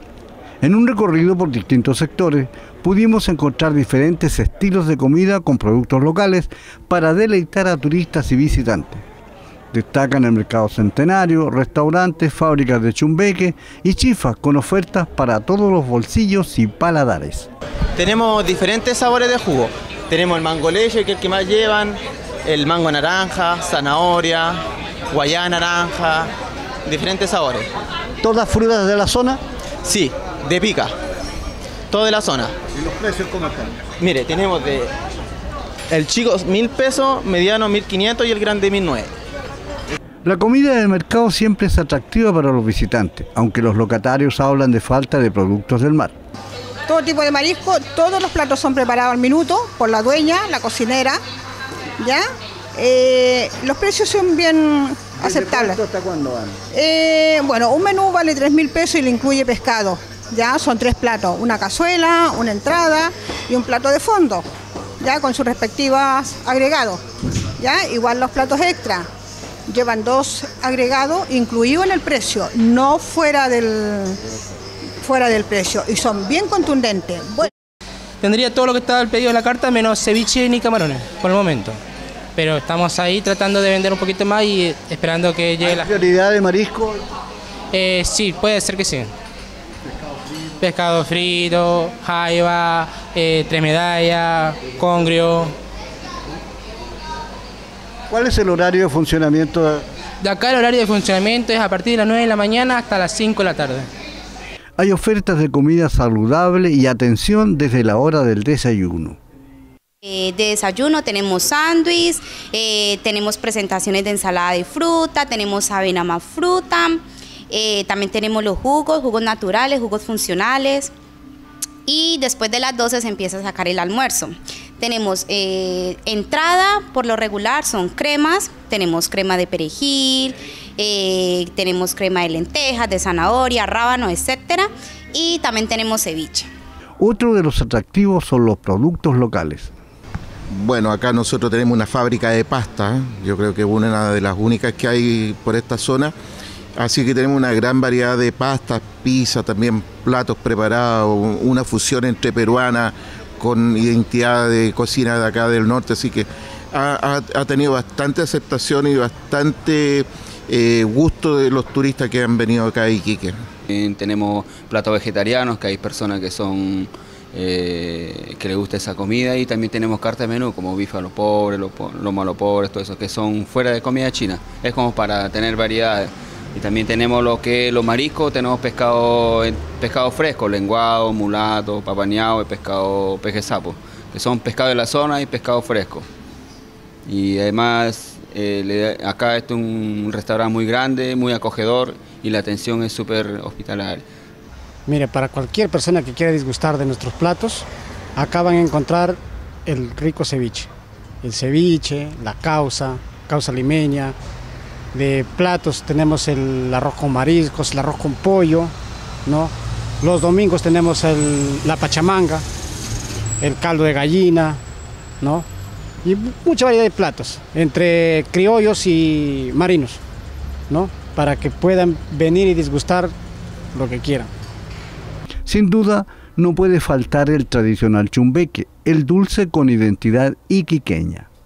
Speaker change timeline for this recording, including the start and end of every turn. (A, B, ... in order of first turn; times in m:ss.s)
0:00.6-0:09.0 A
0:09.7-0:17.5 A
0:18.0-0:26.3 B
0:26.8-0:27.7 B
0:28.2-0:29.4 A
0:29.8-0:30.9 B
0:31.9-0:32.5 B
0:33.0-0:33.5 A
0:34.0-0:34.9 B
0:35.9-0:39.1 B
0:40.2-0:46.1 A
0:46.9-0:51.2 C
0:52.0-0:52.2 C
0:52.8-0:55.8 C
0:55.2-0:56.6 A
0:56.7-1:04.4 C
1:05.0-1:07.0 C
1:07.6-1:09.0 C
1:09.7-1:14.2 C
1:15.0-1:17.5 C
1:18.2-1:21.8 D
1:22.4-1:25.9 D
1:25.6-1:27.0 A
1:27.7-1:29.1 D
1:30.6-1:35.5 D
1:38.1-1:39.8 A
1:40.2-1:43.9 D
1:44.8-1:49.2 A
1:50.0-2:00.9 E
2:01.8-2:16.5 E
2:17.0-2:19.7 A
2:20.5-2:26.1 F
2:26.8-2:43.3 F
2:43.7-3:06.0 G
3:07.0-3:14.0 G
3:14.8-3:17.6 H
3:18.2-3:20.7 H
3:21.2-3:24.2 H
3:24.9-3:28.7 H
3:29.2-3:32.4 H
3:33.4-3:34.6 H
3:35.2-3:35.4 H
3:36.0-3:40.0 H
3:40.7-3:43.1 H
3:43.7-3:44.3 H
3:45.4-3:51.3 A